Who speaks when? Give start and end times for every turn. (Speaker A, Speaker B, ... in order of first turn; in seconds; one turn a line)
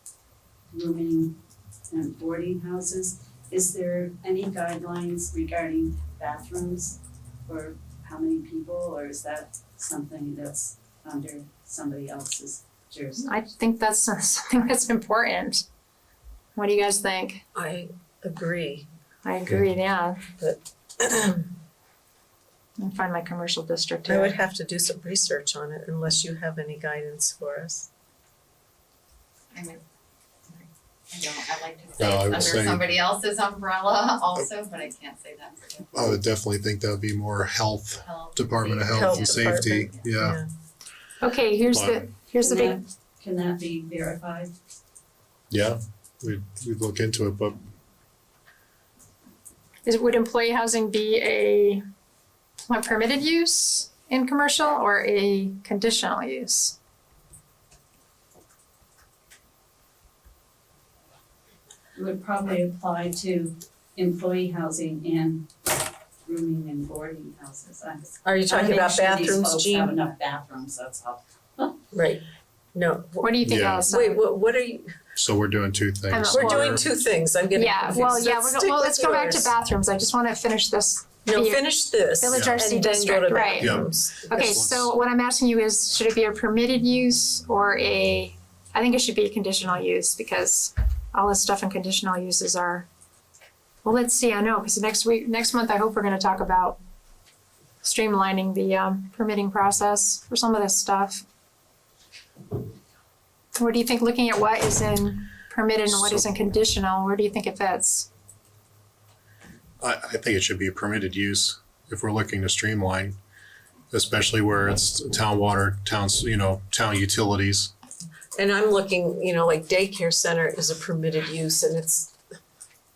Speaker A: 0.7-1.4
Speaker A: 1.9-13.3
Speaker B: 13.2-15.6
Speaker B: 16.5-17.4
Speaker C: 17.5-18.9
Speaker B: 19.2-20.2
Speaker C: 20.4-21.5
Speaker B: 22.8-24.4
Speaker C: 24.1-27.9
Speaker D: 29.5-29.8
Speaker D: 30.5-36.2
Speaker E: 32.0-32.8
Speaker E: 35.9-40.4
Speaker D: 38.0-40.1
Speaker C: 38.8-40.5
Speaker B: 41.2-42.8
Speaker E: 41.7-42.0
Speaker A: 42.4-44.5
Speaker E: 45.5-47.6
Speaker B: 49.8-51.8
Speaker B: 52.6-56.8
Speaker A: 61.9-65.5
Speaker A: 66.2-71.8
Speaker C: 68.2-69.9
Speaker C: 71.9-74.9
Speaker B: 73.2-74.2
Speaker E: 73.4-73.8
Speaker E: 75.2-76.8
Speaker B: 76.1-76.8
Speaker C: 76.3-79.5
Speaker B: 77.5-92.9
Speaker C: 81.2-84.4
Speaker E: 82.3-82.7
Speaker E: 83.6-83.9
Speaker E: 84.4-84.9
Speaker B: 93.8-96.8
Speaker B: 97.8-101.2
Speaker B: 103.5-108.1
Speaker E: 105.9-106.3
Speaker E: 109.8-113.2
Speaker E: 113.9-117.7
Speaker C: 118.3-122.1